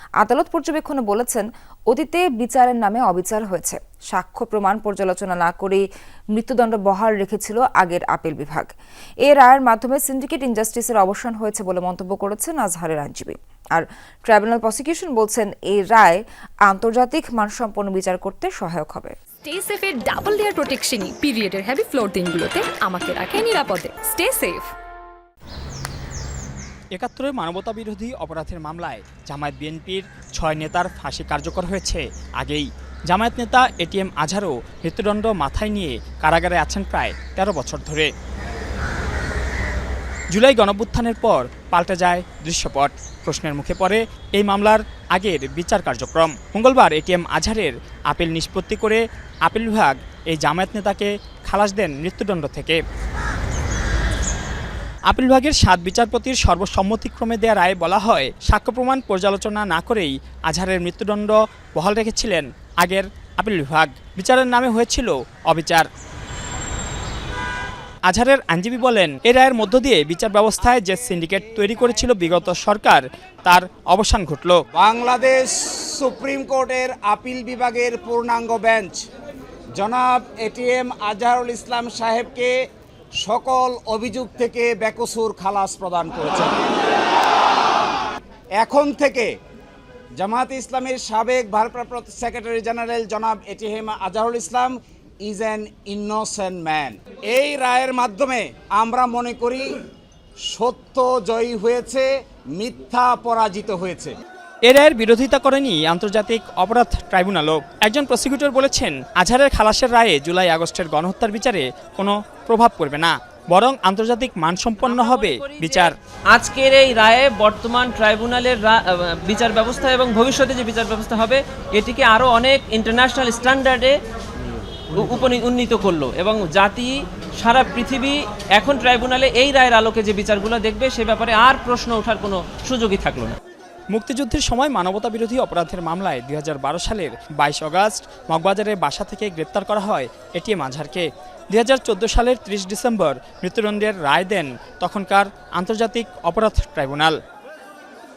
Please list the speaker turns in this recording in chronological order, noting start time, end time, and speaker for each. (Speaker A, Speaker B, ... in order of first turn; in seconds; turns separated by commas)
Speaker A: 0.2-5.8, Speaker A: 6.4-8.7, Speaker A: 9.3-19.1, Speaker B: 19.5-24.7, Speaker C: 27.0-38.1, Speaker C: 40.3-52.8, Speaker C: 55.1-65.9, Speaker C: 68.1-74.6, Speaker D: 74.8-79.0, Speaker D: 79.8-82.5, Speaker D: 83.2-86.6, Speaker D: 88.6-89.3, Speaker D: 90.2-99.7, Speaker D: 100.5-104.1, Speaker C: 104.7-115.9, Speaker E: 114.8-123.9, Speaker E: 124.9-133.4, Speaker C: 133.9-147.2